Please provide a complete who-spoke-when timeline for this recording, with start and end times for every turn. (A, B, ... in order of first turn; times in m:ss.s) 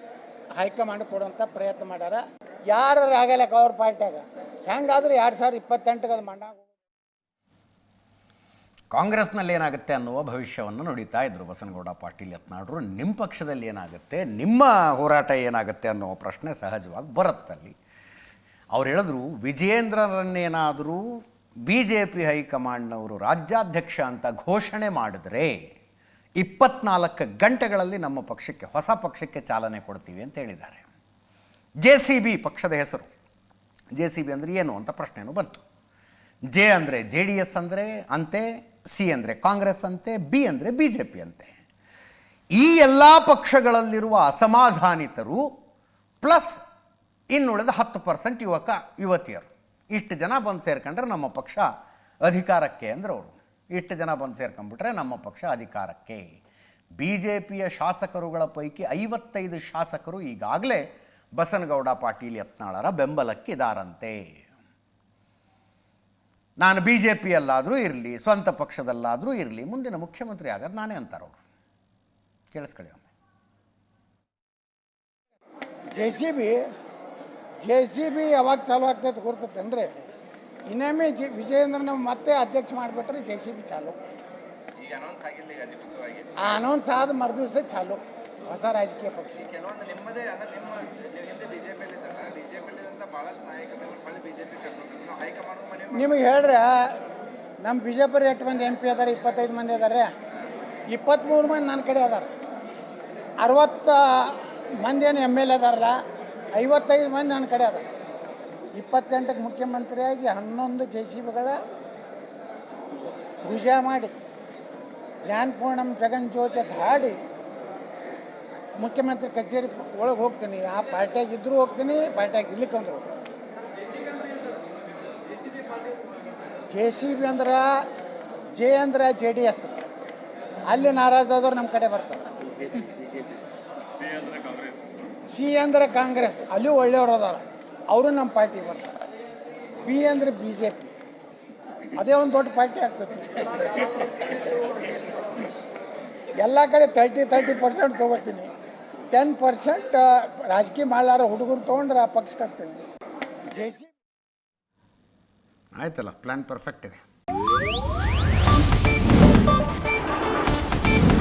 0:00.6-0:06.7 A
0:08.9-0:17.8 B
0:18.7-0:25.6 B
0:26.4-0:30.9 B
0:31.8-0:33.1 B
0:33.9-0:35.6 B
0:36.5-0:41.5 B
0:42.5-0:45.5 B
0:46.2-0:46.6 B
0:47.3-0:51.7 B
0:52.2-0:56.2 B
0:57.0-1:04.2 B
1:06.6-1:11.4 B
1:12.5-1:13.0 B
1:15.9-1:16.6 A
1:17.6-1:19.9 A
1:20.7-1:24.0 A
1:24.9-1:26.2 C
1:26.4-1:29.5 A
1:29.5-1:35.9 C
1:35.9-1:37.0 A
1:37.6-1:40.1 A
1:40.9-1:42.3 A
1:43.4-1:46.0 A
1:46.5-1:47.9 A
1:48.7-1:51.6 A
1:53.4-1:54.1 A
1:55.2-1:57.2 A
1:58.8-2:03.1 A
2:06.7-2:07.8 A
2:08.6-2:09.8 A
2:10.7-2:12.3 A
2:15.3-2:18.9 A
2:19.8-2:20.9 A
2:22.0-2:23.8 A
2:26.4-2:28.5 A
2:29.1-2:32.8 A
2:33.5-2:33.9 A
2:35.7-2:37.0 B